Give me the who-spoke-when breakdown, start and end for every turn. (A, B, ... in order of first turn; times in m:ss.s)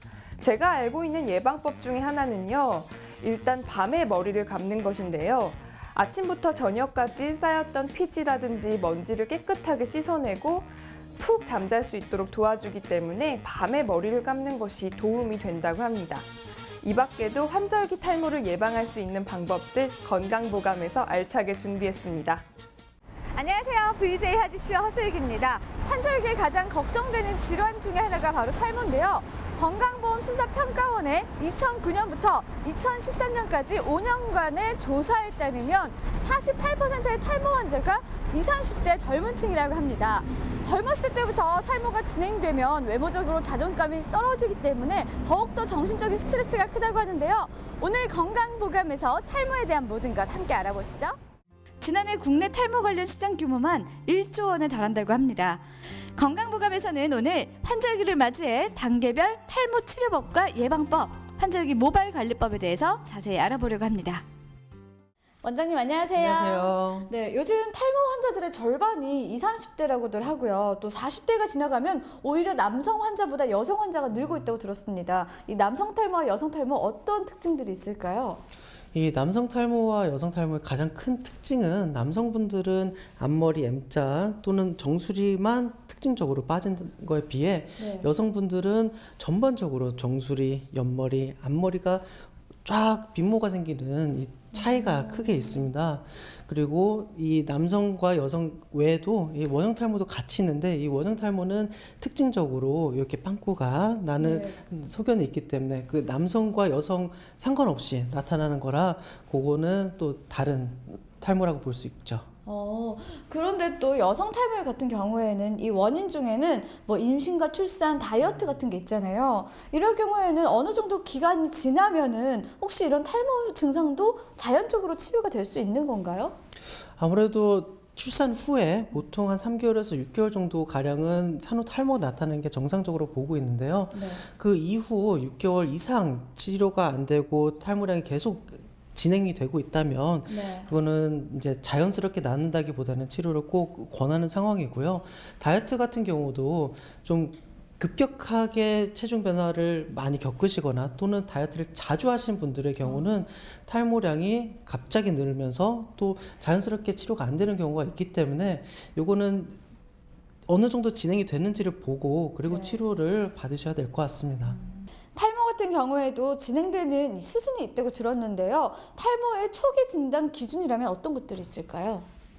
0:00.4-0:10.7 A
0:11.2-0:16.2 A
0:16.8-0:22.4 A
0:23.3-0:51.2 B
0:51.8-0:55.6 B
0:56.2-1:04.2 B
1:05.4-1:18.4 B
1:06.1-1:07.1 C
1:18.9-1:52.3 C
1:27.8-1:28.1 B
1:34.5-1:35.7 B
1:44.2-1:44.6 B
1:52.4-2:06.4 B
2:07.0-2:39.6 C
2:13.9-2:14.2 B
2:20.3-2:20.7 B
2:32.8-2:33.2 B
2:40.5-2:44.6 C
2:42.5-2:42.8 B
2:45.1-2:52.1 B